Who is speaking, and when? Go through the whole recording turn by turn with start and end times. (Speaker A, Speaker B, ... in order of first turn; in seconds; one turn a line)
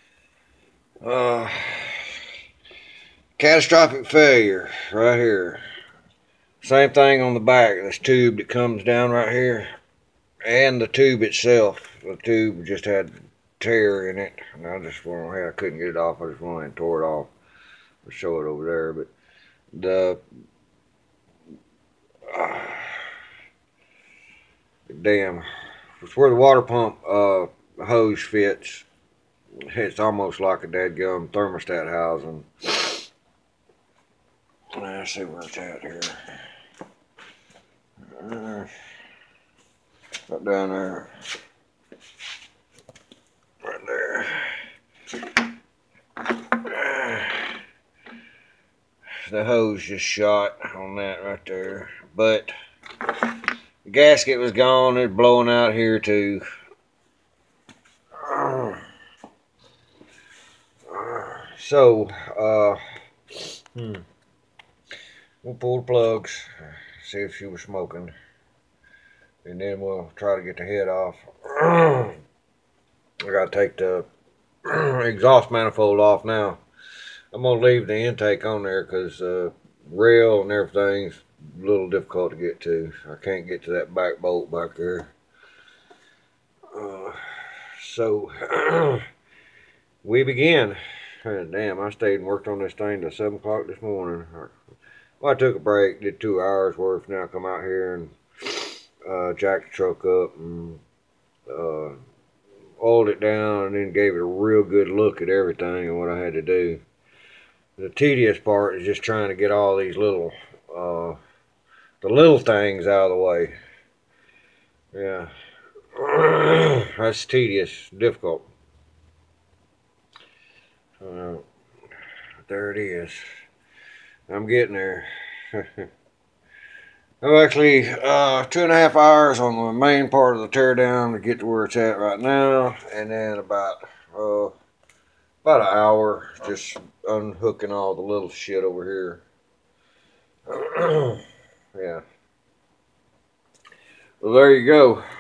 Speaker A: 1.0-2.1
Speaker A: 3.4-5.6
Speaker A: 6.6-9.7
Speaker A: 10.4-17.3
Speaker A: 18.1-19.1
Speaker A: 19.7-20.2
Speaker A: 22.3-23.1
Speaker A: 24.9-25.4
Speaker A: 26.0-28.9
Speaker A: 29.7-33.1
Speaker A: 34.8-36.2
Speaker A: 38.1-38.7
Speaker A: 40.3-41.1
Speaker A: 43.6-44.5
Speaker A: 46.3-47.6
Speaker A: 49.3-52.5
Speaker A: 53.9-56.4
Speaker A: 58.2-58.8
Speaker A: 60.9-62.8
Speaker A: 63.4-64.0
Speaker A: 65.4-68.1
Speaker A: 69.5-72.2
Speaker A: 73.3-74.1
Speaker A: 74.7-76.6
Speaker A: 77.3-85.1
Speaker A: 86.7-89.0
Speaker A: 90.0-94.5
Speaker A: 95.2-100.8
Speaker A: 101.5-102.0
Speaker A: 102.8-106.8
Speaker A: 107.8-111.2
Speaker A: 112.0-113.5
Speaker A: 114.9-115.3
Speaker A: 116.0-118.5
Speaker A: 121.0-121.4
Speaker A: 122.4-123.2
Speaker A: 124.3-125.9
Speaker A: 127.2-134.5
Speaker A: 135.4-139.2
Speaker A: 140.5-141.2
Speaker A: 141.8-142.0
Speaker A: 144.2-145.0